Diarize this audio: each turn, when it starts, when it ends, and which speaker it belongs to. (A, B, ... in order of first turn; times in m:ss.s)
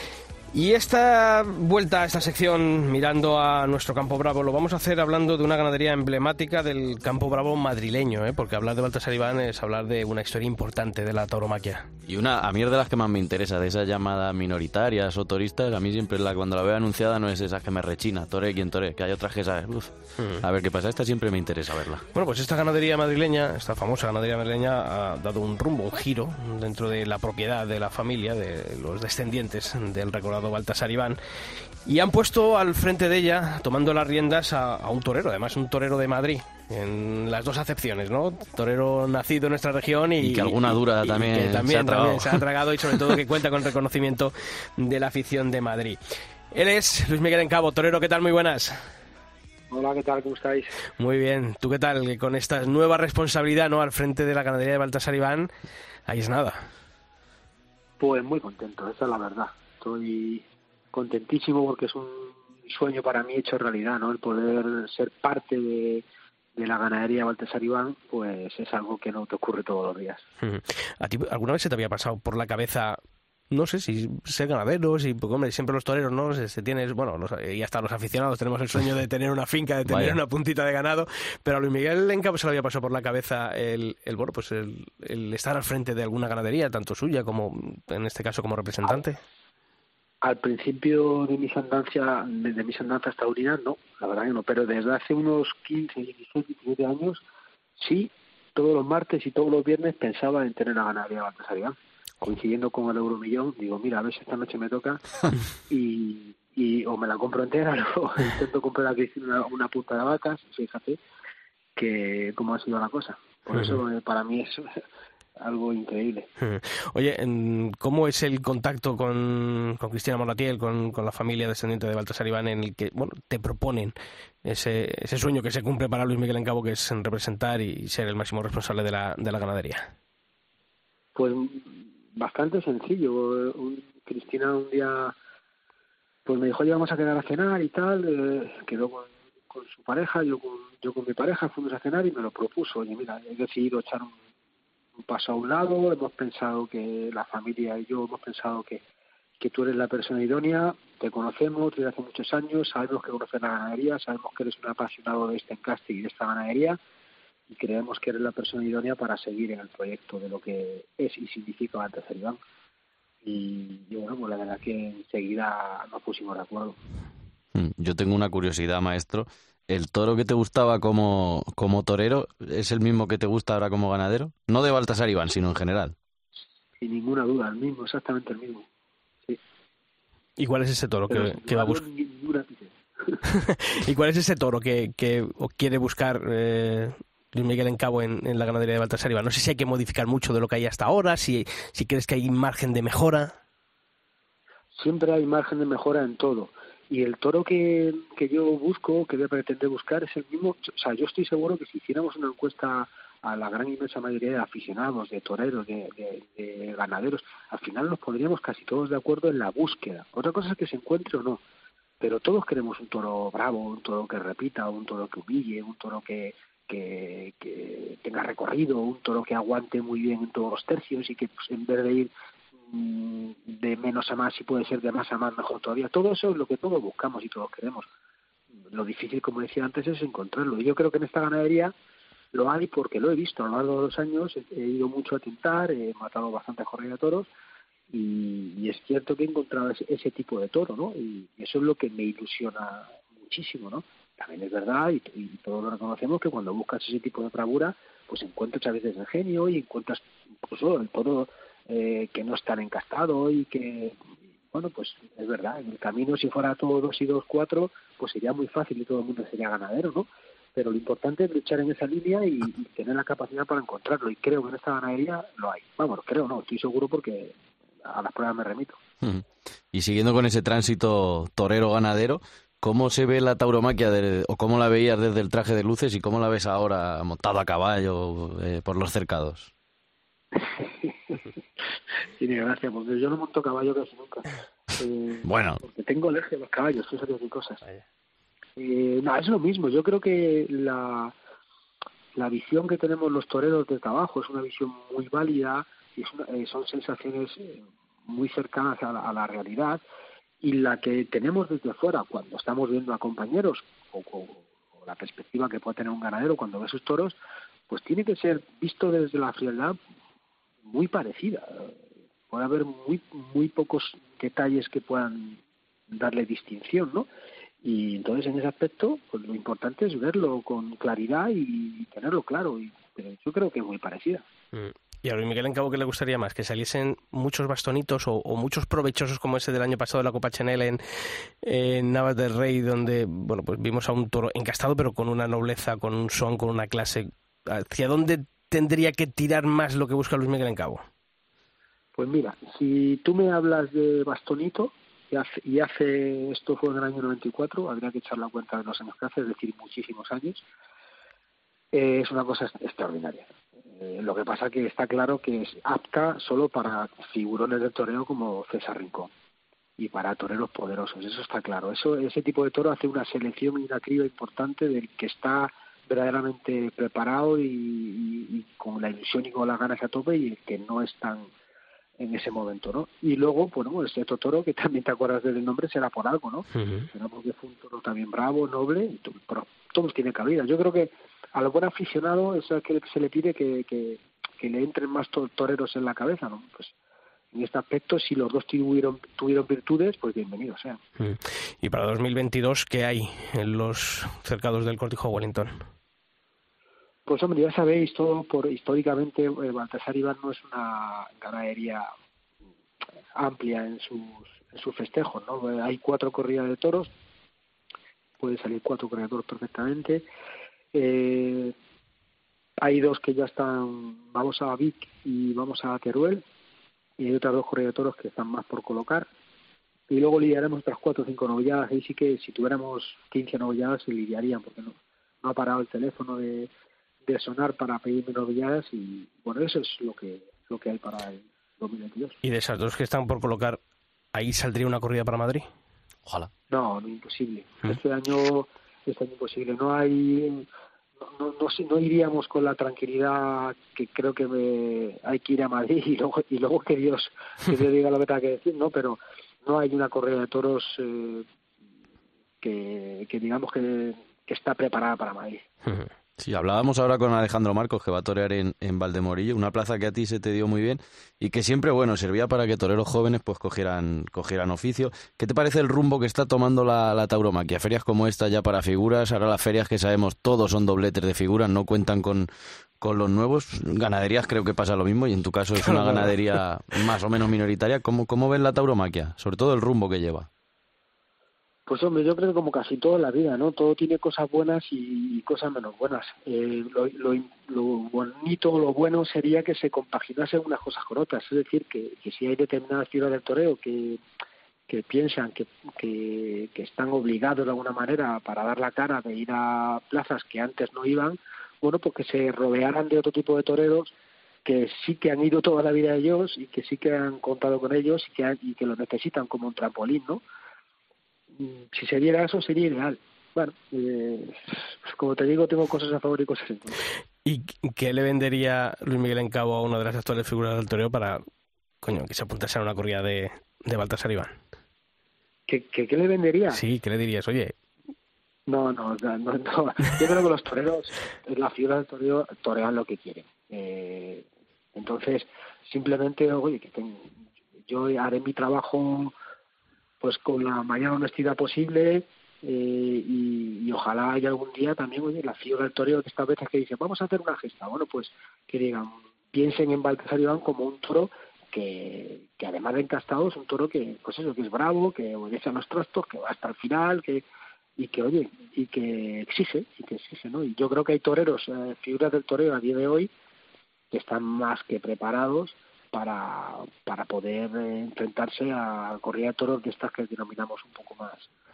0:00.5-0:11.9 A
0:12.1-0:22.1 B
0:20.2-0:20.4 A
0:22.1-0:31.2 A
0:31.8-0:46.0 A
0:40.2-0:42.4 B
0:46.5-0:48.9 A
0:49.7-0:50.7 C
0:51.0-0:55.5 A
0:56.1-0:56.7 A
0:58.0-1:06.0 C
1:06.6-1:10.2 C
1:10.4-1:13.0 A
1:13.5-1:29.2 A
1:19.9-1:20.2 B
1:30.2-1:37.2 C
1:37.8-1:45.0 C
1:45.7-1:51.0 C
1:51.8-1:54.8 C
1:53.5-1:53.8 A
1:55.4-1:56.3 C
1:56.4-2:09.9 A
2:11.2-2:15.1 C
2:16.3-2:24.1 C
2:25.0-2:28.8 C
2:29.4-2:36.8 C
2:37.5-2:42.4 C
2:43.2-2:46.8 C
2:47.5-2:56.0 B
2:56.8-2:58.7 C
3:00.4-3:01.8 A
3:01.1-3:03.2 C
3:03.3-3:13.4 A
3:14.7-3:31.4 C
3:32.0-3:42.1 C
3:42.7-3:47.9 C
3:48.7-3:51.7 C
3:52.3-3:57.3 C
3:57.9-4:28.8 C
4:29.0-4:39.5 B
4:40.4-4:41.2 C
4:42.2-4:47.6 C
4:45.2-4:45.6 B
4:48.6-4:51.2 C
4:52.2-4:59.8 C
5:00.4-5:07.2 C
5:07.7-5:09.8 C
5:10.6-5:11.7 C
5:12.3-5:17.1 C
5:17.6-5:24.2 C
5:24.5-5:40.8 A
5:42.0-5:50.4 C
5:51.7-5:59.1 C
5:59.8-6:11.3 C
6:12.0-6:26.7 C
6:16.6-6:16.9 A
6:27.3-6:30.8 C
6:31.0-6:35.6 A
6:37.1-6:41.9 C
6:43.2-6:46.9 C
6:48.2-6:50.1 C
6:50.7-6:51.5 C
6:52.6-6:56.2 C
6:57.0-6:59.1 C
6:59.9-7:06.5 C
7:07.0-7:12.2 C
7:12.2-7:13.6 A
7:14.1-7:15.5 A
7:16.5-7:20.5 C
7:21.0-7:31.2 C
7:32.4-7:35.4 C
7:36.2-7:52.3 B
7:52.8-8:00.3 B
7:55.6-7:56.2 A
8:01.7-8:14.0 C
8:14.7-8:23.9 C
8:24.4-8:30.2 C
8:31.4-8:36.8 C
8:37.2-8:41.2 A
8:41.8-8:44.4 A
8:45.5-8:46.6 C
8:46.5-8:47.5 A
8:48.5-8:57.1 C
8:57.7-8:59.1 C
9:00.0-9:17.2 C
9:17.8-9:23.1 C
9:23.9-9:31.3 C